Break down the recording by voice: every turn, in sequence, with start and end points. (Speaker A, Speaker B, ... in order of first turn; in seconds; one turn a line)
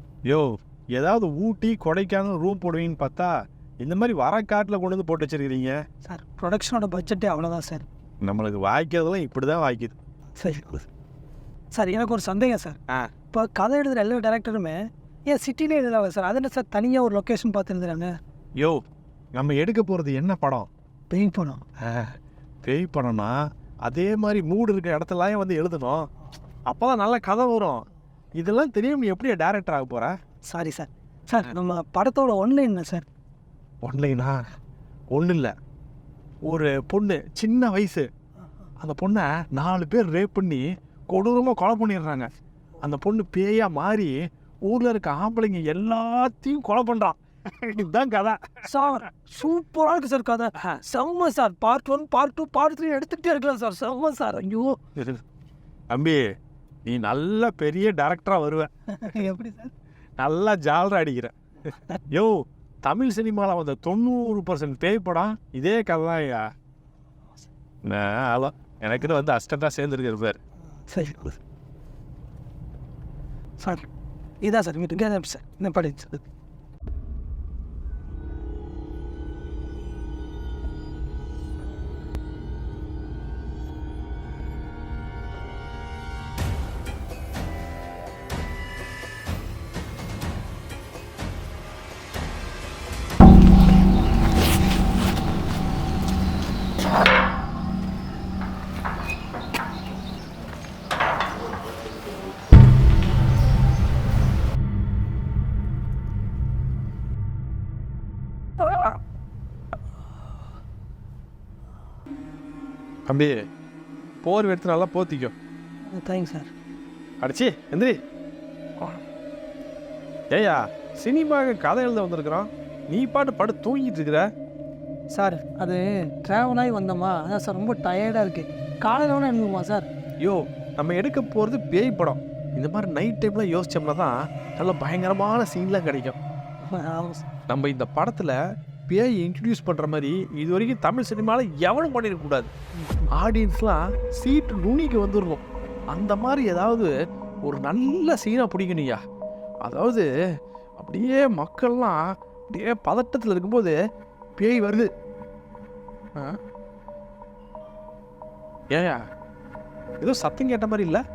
Speaker A: 0.3-5.8
Speaker B: 6.0-7.8
Speaker A: 8.2-9.9
Speaker B: 10.4-10.8
Speaker B: 11.7-12.8
Speaker B: 13.3-18.2
Speaker A: 19.3-20.7
Speaker B: 21.1-21.6
Speaker A: 21.8-26.1
Speaker A: 26.7-30.1
Speaker B: 30.5-33.0
Speaker A: 33.8-34.4
Speaker A: 35.1-35.5
Speaker A: 36.4-38.1
Speaker A: 38.8-42.3
Speaker A: 42.8-48.4
Speaker B: 48.6-54.8
Speaker A: 55.0-55.2
Speaker A: 55.9-56.2
Speaker A: 56.9-58.7
Speaker B: 59.0-59.7
Speaker A: 60.2-66.5
Speaker A: 67.8-70.4
Speaker B: 70.9-71.4
Speaker B: 73.6-73.8
Speaker B: 74.4-76.2
Speaker A: 113.1-113.4
Speaker A: 114.2-115.3
Speaker B: 115.9-116.5
Speaker A: 117.2-118.0
Speaker A: 120.3-124.2
Speaker B: 125.1-129.9
Speaker A: 130.2-136.2
Speaker B: 136.6-137.2
Speaker A: 137.5-138.4
Speaker A: 138.9-142.5
Speaker B: 142.8-143.1
Speaker A: 143.1-146.9
Speaker A: 147.4-149.0
Speaker A: 149.6-150.1
Speaker A: 150.8-153.8
Speaker A: 154.4-154.9
Speaker A: 158.7-159.0
Speaker A: 160.0-161.0